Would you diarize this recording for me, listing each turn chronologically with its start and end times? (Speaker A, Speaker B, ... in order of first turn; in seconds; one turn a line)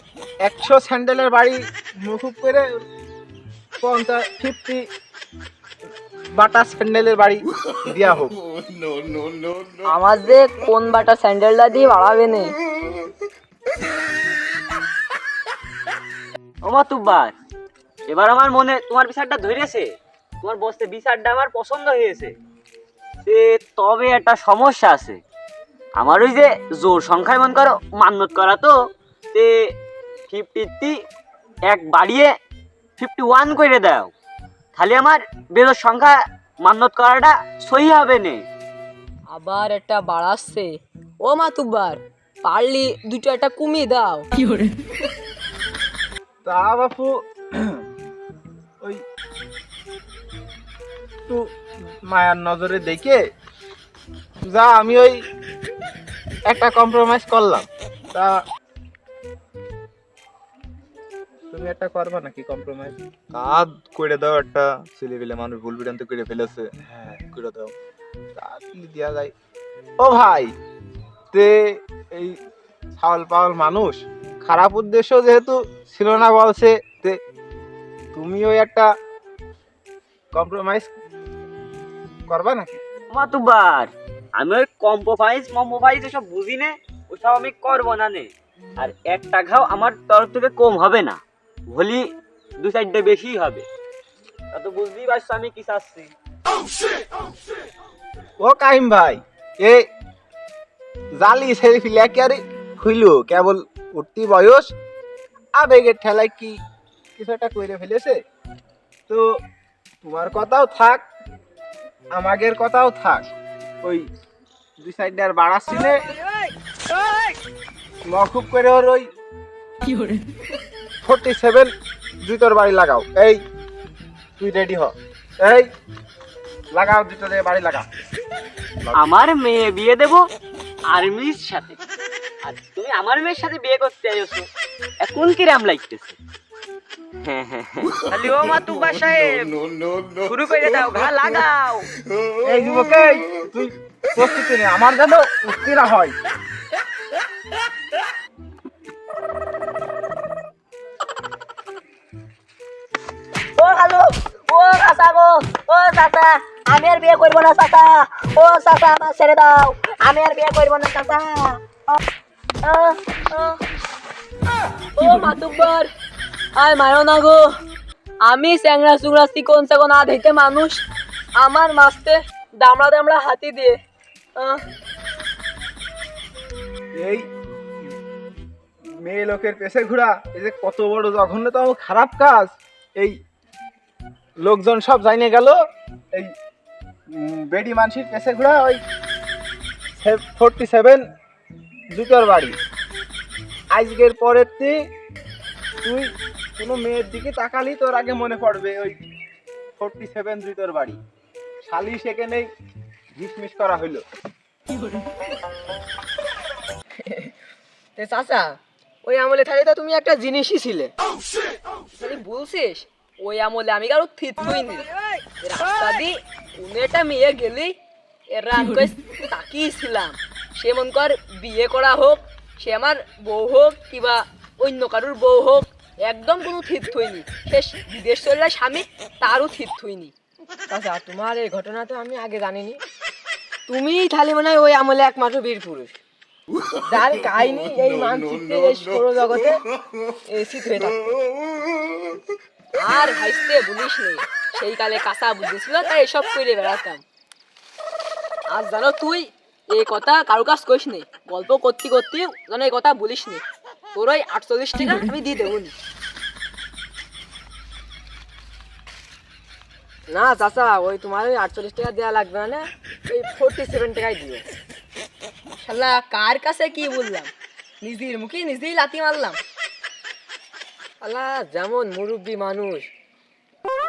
Speaker A: 0.4-2.8
Speaker A: 3.8-4.8
Speaker A: 6.3-8.4
Speaker B: 8.9-9.7
Speaker C: 9.9-12.5
Speaker D: 16.6-17.3
Speaker D: 18.1-19.9
Speaker D: 20.4-22.4
Speaker D: 23.2-25.2
Speaker D: 26.0-28.7
Speaker D: 30.3-30.9
Speaker D: 31.7-32.3
Speaker D: 33.0-34.1
Speaker D: 34.8-38.4
Speaker C: 39.3-40.7
Speaker C: 41.2-44.3
Speaker A: 46.5-47.8
Speaker A: 52.1-53.2
Speaker A: 54.5-55.2
Speaker A: 56.5-58.3
Speaker A: 61.5-63.0
Speaker B: 63.3-67.7
Speaker A: 68.4-69.3
Speaker A: 70.0-70.5
Speaker A: 73.0-77.2
Speaker A: 78.2-78.9
Speaker A: 80.3-80.9
Speaker A: 82.3-82.8
Speaker D: 83.1-92.0
Speaker D: 92.6-93.6
Speaker D: 94.5-96.1
Speaker A: 98.4-99.8
Speaker A: 101.2-104.7
Speaker A: 105.6-106.6
Speaker A: 107.2-108.2
Speaker A: 110.0-111.0
Speaker A: 112.2-113.2
Speaker A: 114.8-116.0
Speaker A: 118.1-119.0
Speaker A: 121.0-121.7
Speaker A: 122.2-123.4
Speaker A: 124.4-125.7
Speaker A: 126.7-127.8
Speaker D: 128.9-130.2
Speaker D: 130.9-131.8
Speaker D: 132.4-134.5
Speaker D: 135.0-136.2
Speaker D: 137.2-139.6
Speaker D: 140.2-141.9
Speaker A: 142.4-146.2
Speaker C: 153.6-161.6
Speaker C: 162.6-163.6
Speaker C: 165.0-165.9
Speaker C: 166.6-167.5
Speaker C: 168.3-170.8
Speaker C: 171.4-173.8
Speaker C: 174.4-174.6
Speaker A: 177.0-177.2
Speaker A: 179.0-183.1
Speaker A: 184.4-185.6
Speaker A: 187.2-188.8
Speaker A: 190.0-191.0
Speaker A: 191.9-192.6
Speaker A: 193.7-194.8
Speaker A: 195.8-199.0
Speaker A: 199.8-201.0
Speaker A: 201.7-202.5
Speaker A: 203.2-204.0
Speaker E: 208.0-208.5
Speaker E: 209.1-210.9
Speaker C: 211.9-214.8
Speaker C: 215.4-217.7
Speaker C: 218.3-230.1
Speaker E: 230.7-232.8
Speaker E: 233.7-236.0
Speaker E: 236.9-239.6
Speaker E: 240.3-241.2
Speaker C: 242.8-247.0
Speaker C: 248.5-253.4
Speaker C: 253.9-255.7
Speaker E: 260.1-264.4
Speaker C: 265.6-267.3
Speaker C: 267.8-269.4
Speaker E: 271.0-272.9